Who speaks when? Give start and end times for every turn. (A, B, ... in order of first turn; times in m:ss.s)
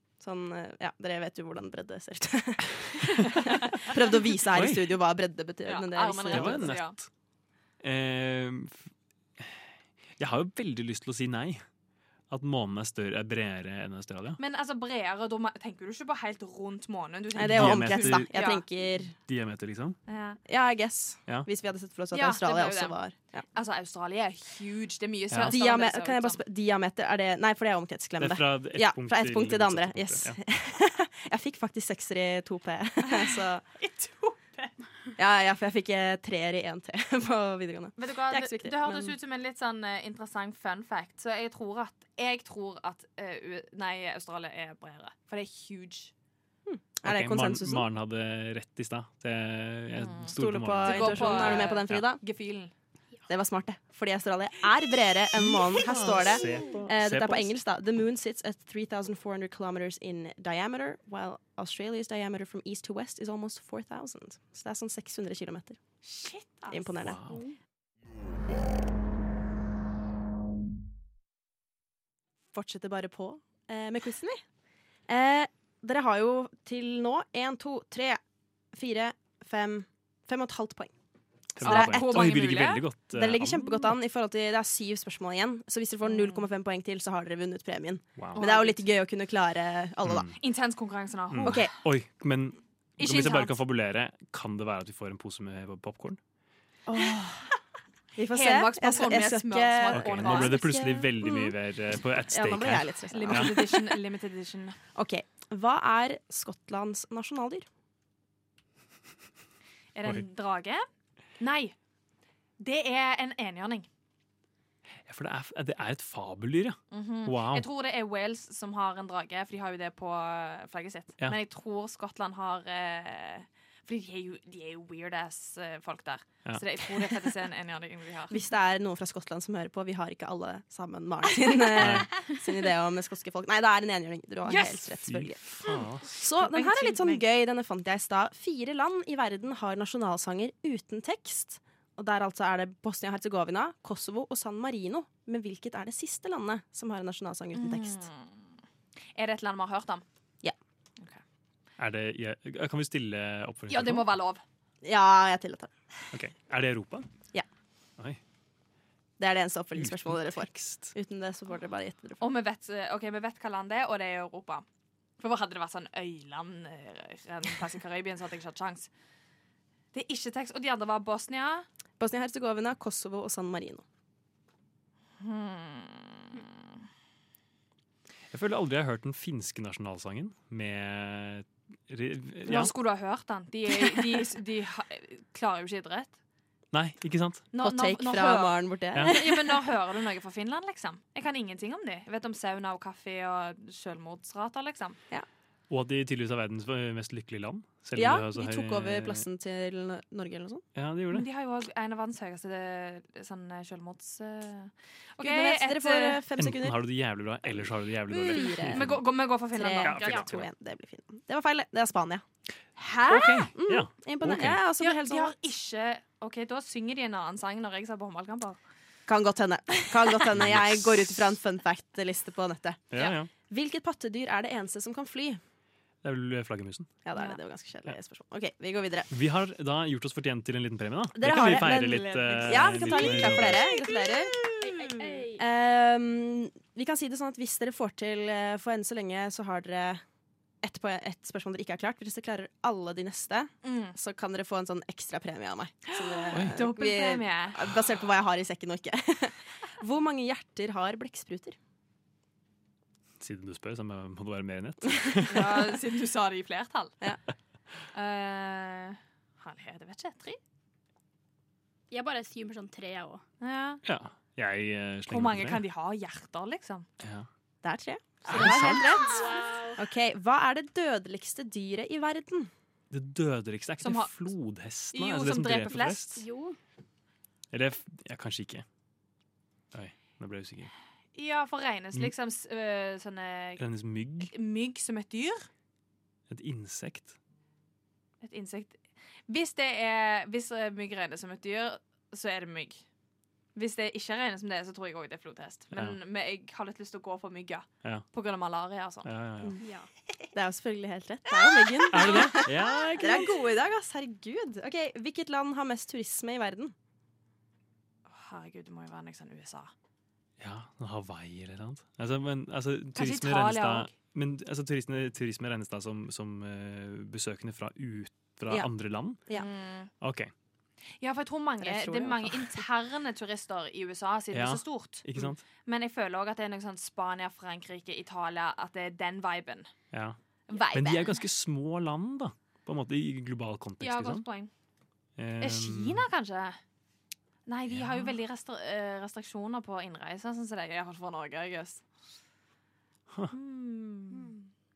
0:00.2-0:06.7 A
0:04.5-0:04.9 B
0:05.6-0:07.0 C
0:06.3-0:07.1 B
0:07.8-0:08.8 B
0:10.2-0:11.6 B
0:12.3-0:14.4 B
0:14.4-0:18.6 C
0:17.3-0:19.1 A
0:17.4-0:18.5 B
0:19.1-0:20.0 B
0:20.1-0:20.4 C
0:20.5-0:23.4 A
0:22.1-0:23.0 C
0:23.5-0:26.4 C
0:25.3-0:25.6 B
0:25.5-0:33.6 A
0:28.2-0:30.4 B
0:33.1-0:34.7 C
0:35.2-0:39.1 A
0:38.0-0:46.1 C
0:46.6-0:47.9 A
0:47.0-0:52.0 B
0:50.0-0:52.7 C
0:50.3-0:52.2 A
0:53.3-1:05.8 A
0:55.4-0:57.5 B
1:06.0-1:06.9 C
1:06.7-1:07.2 A
1:07.0-1:07.4 B
1:12.5-1:14.4 A
1:15.1-1:18.2 A
1:18.7-1:20.9 A
1:21.6-1:22.4 A
1:21.6-1:23.6 B
1:21.6-1:22.8 C
1:23.1-1:30.3 A
1:26.0-1:26.5 C
1:28.3-1:28.8 C
1:30.0-1:30.4 B
1:30.4-1:31.6 C
1:31.3-1:36.2 B
1:31.4-1:31.7 A
1:33.0-1:33.6 C
1:36.9-1:37.5 A
1:38.1-1:41.5 A
1:38.3-1:40.6 C
1:39.9-1:43.6 B
1:42.3-1:43.6 A
1:43.1-1:44.8 C
1:44.9-1:47.6 A
1:49.9-1:50.8 C
1:51.4-1:51.7 C
1:52.6-1:53.9 C
1:55.1-1:57.6 B
1:56.9-2:08.4 C
2:08.3-2:15.4 A
2:11.8-2:12.1 B
2:14.4-2:14.9 C
2:15.0-2:16.1 B
2:15.6-2:17.2 C
2:16.1-2:28.1 A
2:27.5-2:28.4 C
2:29.1-2:30.0 C
2:31.8-2:34.1 B
2:33.7-2:34.4 C
2:34.8-2:35.7 A
2:36.1-2:37.1 B
2:39.2-2:42.3 A
2:39.8-2:40.9 B
2:42.2-2:44.6 C
2:45.2-2:48.9 C
2:49.9-2:51.6 C
2:52.0-2:53.8 A
2:55.2-2:56.8 C
2:58.3-3:02.7 B
3:02.4-3:06.2 C
3:06.7-3:07.4 B
3:07.5-3:15.0 C
3:07.6-3:09.6 A
3:15.7-3:19.2 B
3:17.9-3:20.6 A
3:20.8-3:21.2 B
3:21.1-3:26.2 C
3:25.2-3:26.8 A
3:26.4-3:29.0 B
3:28.1-3:28.9 A
3:28.3-3:30.3 C
3:29.5-3:32.2 A
3:29.8-3:30.4 B
3:32.8-3:35.3 A
3:33.1-3:34.6 B
3:34.8-3:38.6 C
3:39.1-3:42.8 A
3:40.3-3:41.3 B
3:42.9-3:43.3 B
3:43.5-3:45.4 A
3:46.0-3:46.9 B
3:47.0-3:49.1 A
3:49.1-3:53.7 B
3:51.1-3:54.4 A
3:52.3-3:53.6 C
3:54.6-3:55.4 D
3:55.3-4:00.0 A
4:00.6-4:11.6 A
4:03.6-4:03.9 C
4:05.9-4:07.6 C
4:13.2-4:15.7 B
4:15.3-4:17.0 C
4:17.9-4:20.4 C
4:21.9-4:23.2 D
4:23.4-4:23.8 C
4:23.8-4:25.6 B
4:25.1-4:26.9 C
4:27.0-4:27.3 B
4:27.6-4:32.5 A
4:28.3-4:29.1 B
4:28.6-4:29.8 D
4:32.9-4:36.2 B
4:33.8-4:34.2 C
4:34.9-4:36.2 C
4:36.2-4:36.6 D
4:37.5-4:38.6 B
4:39.7-4:40.7 B
4:41.1-4:43.6 C
4:43.6-4:44.3 B
4:44.3-4:45.5 C
4:46.3-4:47.2 B
4:48.2-4:52.8 C
4:53.5-4:59.1 C
4:59.0-4:59.6 B
4:59.6-4:59.9 D
5:00.3-5:06.7 A
5:01.9-5:03.3 B
5:02.0-5:02.3 C
5:08.1-5:09.7 C
5:10.4-5:19.2 B
5:12.9-5:13.9 C
5:19.3-5:19.9 C
5:20.0-5:20.3 B
5:21.0-5:25.0 C
5:21.6-5:22.6 A
5:24.3-5:25.4 B
5:25.6-5:29.7 C
5:29.9-5:30.2 B
5:30.5-5:31.1 C
5:30.7-5:34.2 B
5:33.8-5:34.5 C
5:35.2-5:36.0 B
5:35.4-5:36.6 C
5:37.4-5:41.8 C
5:37.7-5:38.1 B
5:43.3-5:44.5 C